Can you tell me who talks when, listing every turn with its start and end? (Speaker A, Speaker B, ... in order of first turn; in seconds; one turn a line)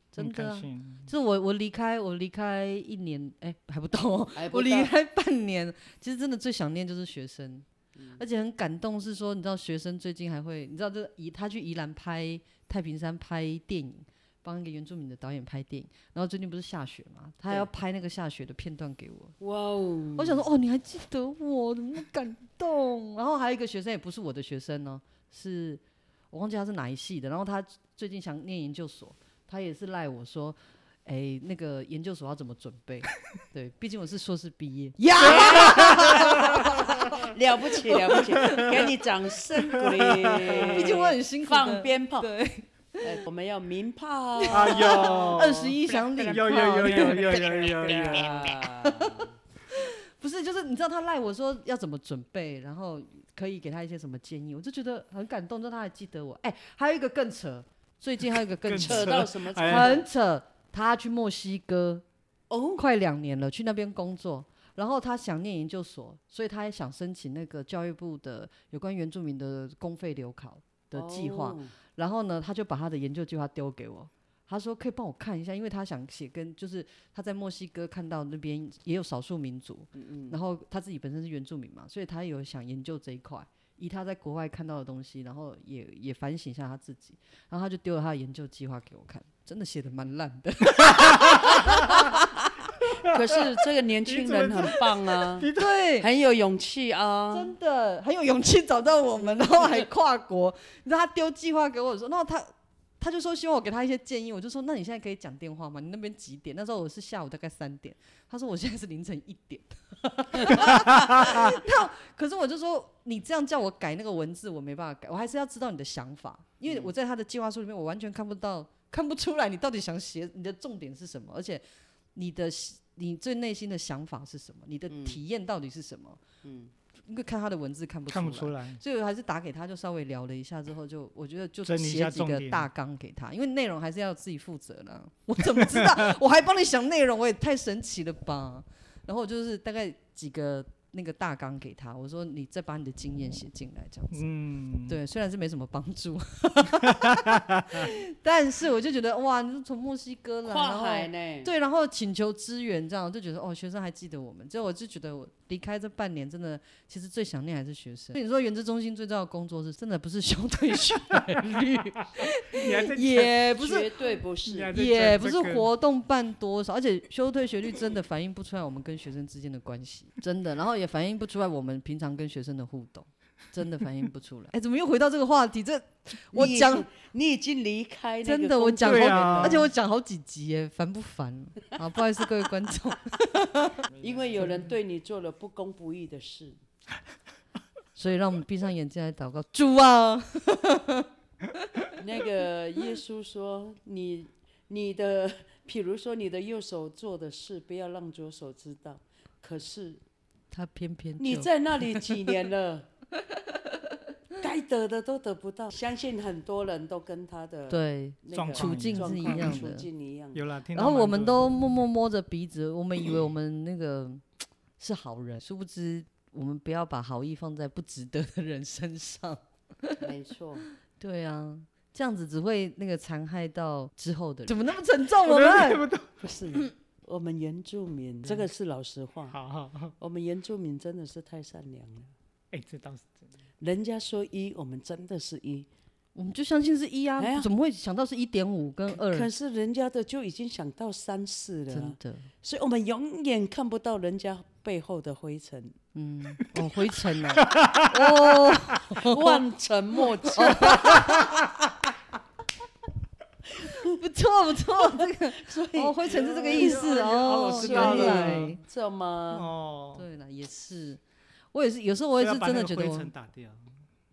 Speaker A: 0.1-7.7
Speaker B: 0.2-1.1
Speaker C: 4.3-4.9
Speaker C: 8.0-8.2
Speaker A: 8.2-19.3
Speaker C: 19.4-20.4
Speaker A: 20.2-37.3
Speaker C: 35.2-42.3
Speaker B: 35.2-37.3
Speaker A: 37.8-38.8
Speaker B: 38.4-38.9
Speaker B: 39.6-40.9
Speaker A: 40.7-43.2
Speaker C: 43.0-45.8
Speaker A: 44.4-62.0
Speaker B: 44.5-48.5
Speaker C: 47.0-49.3
Speaker B: 58.6-60.0
Speaker C: 58.7-60.1
Speaker C: 62.5-62.8
Speaker A: 62.8-92.2
Speaker C: 70.9-71.7
Speaker C: 80.0-80.4
Speaker B: 90.8-92.1
Speaker B: 92.8-93.4
Speaker C: 93.0-97.5
Speaker B: 94.0-95.8
Speaker A: 95.5-96.1
Speaker A: 97.3-121.6
Speaker B: 110.9-111.5
Speaker C: 116.7-116.9
Speaker A: 122.2-126.2
Speaker C: 124.9-125.2
Speaker C: 126.4-126.7
Speaker A: 127.0-144.2
Speaker B: 128.1-128.8
Speaker B: 131.7-132.7
Speaker B: 135.6-136.1
Speaker B: 144.1-145.0
Speaker A: 144.9-164.2
Speaker B: 146.8-147.9
Speaker C: 150.4-151.5
Speaker B: 161.9-163.5
Speaker C: 163.5-164.7
Speaker B: 164.5-165.7
Speaker A: 164.7-176.9
Speaker C: 176.3-179.7
Speaker A: 178.2-183.8
Speaker B: 178.8-179.7
Speaker B: 184.0-184.4
Speaker C: 184.0-186.6
Speaker A: 188.0-191.9
Speaker C: 192.0-200.0
Speaker A: 200.5-202.3
Speaker C: 201.2-202.9
Speaker A: 203.2-204.0
Speaker C: 204.4-210.4
Speaker A: 207.7-209.9
Speaker B: 208.3-209.6
Speaker B: 210.3-211.6
Speaker A: 210.7-214.2
Speaker A: 214.8-220.1
Speaker C: 220.0-220.7
Speaker A: 221.0-225.8
Speaker B: 225.2-226.1
Speaker C: 226.2-229.4
Speaker B: 229.3-229.9
Speaker C: 230.0-232.1
Speaker B: 232.5-233.2
Speaker C: 233.6-235.7
Speaker A: 236.2-239.3
Speaker C: 237.2-237.5
Speaker C: 238.9-245.8
Speaker A: 241.7-242.3
Speaker A: 245.9-249.4
Speaker B: 247.4-248.5
Speaker C: 248.9-251.7
Speaker A: 250.2-251.3
Speaker B: 250.9-251.5
Speaker C: 253.5-254.0
Speaker A: 253.6-258.6
Speaker C: 254.8-256.9
Speaker B: 256.1-258.6
Speaker C: 257.5-259.5
Speaker B: 259.3-260.1
Speaker A: 260.0-261.0
Speaker A: 261.5-263.1
Speaker B: 262.2-263.7